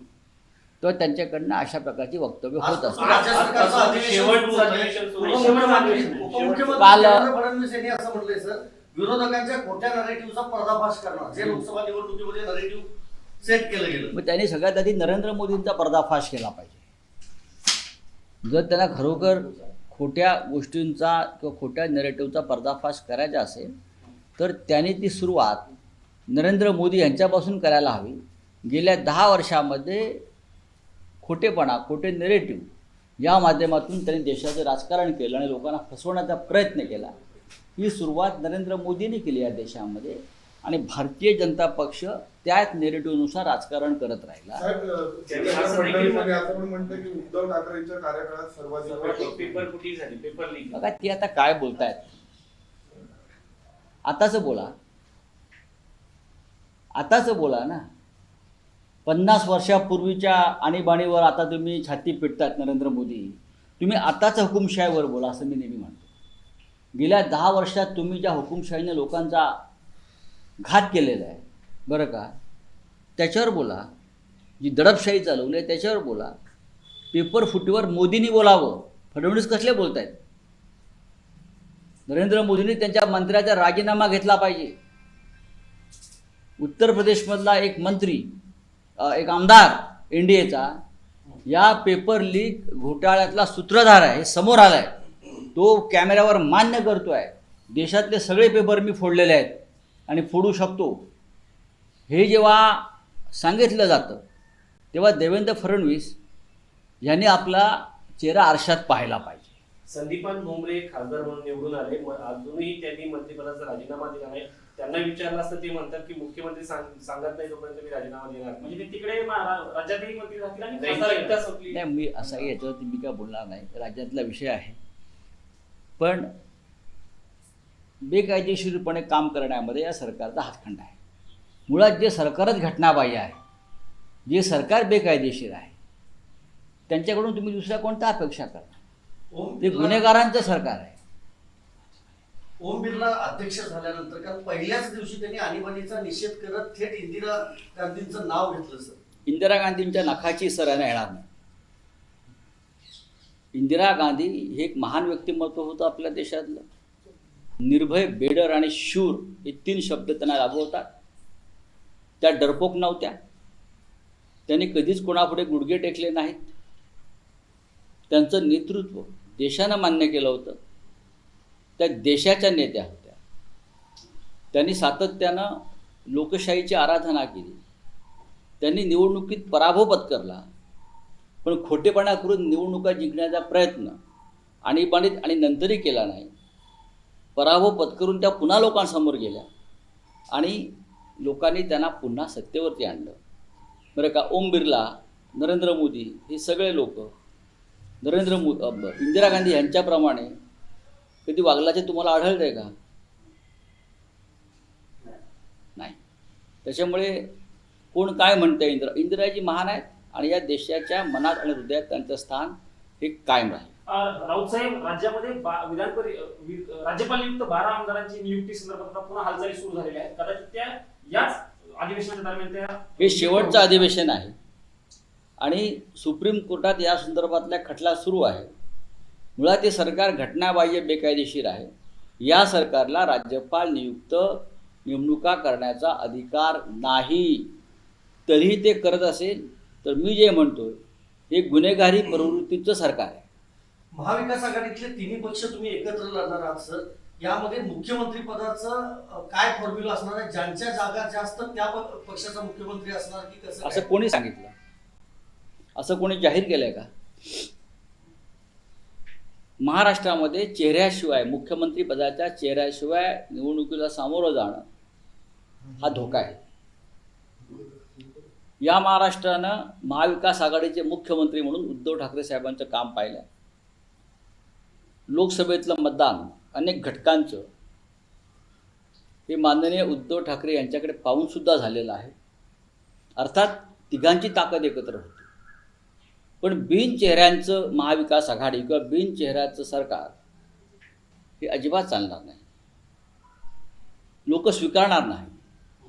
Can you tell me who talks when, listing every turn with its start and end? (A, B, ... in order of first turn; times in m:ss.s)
0:00.8-0:03.5 A
0:02.6-0:12.9 B
0:03.0-0:06.8 C
0:06.8-0:07.3 A
0:13.4-0:14.2 B
0:14.1-0:16.8 A
0:18.4-0:23.7 A
0:24.4-0:25.7 A
0:26.3-0:30.2 A
0:31.2-0:32.7 A
0:33.2-0:37.1 A
0:37.8-0:44.6 A
0:44.5-0:49.6 D
0:45.3-0:46.4 C
0:48.8-0:50.8 C
0:50.7-0:52.1 A
0:54.0-0:54.7 A
0:57.0-0:57.9 A
0:59.0-1:06.0 A
1:07.0-1:09.6 A
1:10.6-1:12.3 A
1:13.2-1:13.9 A
1:14.6-1:16.3 A
1:17.1-1:20.2 A
1:22.1-1:24.7 A
1:26.6-1:28.3 A
1:29.0-1:30.8 A
1:31.5-1:34.9 A
1:35.5-1:41.0 A
1:42.1-1:44.2 A
1:44.9-1:46.2 A
1:47.0-1:49.5 A
1:49.9-1:58.7 C
1:58.6-2:01.4 E
2:00.7-2:01.8 C
2:01.7-2:04.8 A
2:06.0-2:06.3 A
2:08.0-2:11.0 A
2:11.7-2:13.4 A
2:14.3-2:15.7 A
2:16.9-2:18.7 A
2:19.3-2:20.1 B
2:19.6-2:21.0 A
2:22.6-2:29.0 B
2:29.2-2:31.2 A
2:33.5-2:36.6 A
2:37.6-2:40.9 A
2:42.2-2:43.2 A
2:44.5-2:46.5 A
2:48.1-2:50.6 A
2:51.8-2:53.2 A
2:54.5-2:55.6 A
2:56.1-2:57.6 A
2:58.6-3:00.4 A
3:01.4-3:04.0 A
3:04.6-3:06.3 A
3:07.4-3:09.5 A
3:10.3-3:13.2 A
3:13.9-3:17.1 A
3:18.0-3:20.4 A
3:21.2-3:22.7 A
3:26.6-3:27.3 A
3:27.9-3:33.7 A
3:33.9-3:43.7 E
3:43.0-3:44.3 A
3:45.4-3:48.5 A
3:49.4-3:57.5 A
3:58.3-4:00.8 A
4:01.3-4:03.2 A
4:03.9-4:13.8 B
4:13.6-4:14.5 A
4:15.8-4:17.4 A
4:19.6-4:24.6 A
4:25.8-4:26.4 A
4:28.6-4:33.2 A
4:35.1-4:37.4 A
4:39.3-4:42.1 A
4:43.2-4:45.3 A
4:46.4-4:50.2 A
4:51.4-4:52.4 A
4:54.3-4:55.4 A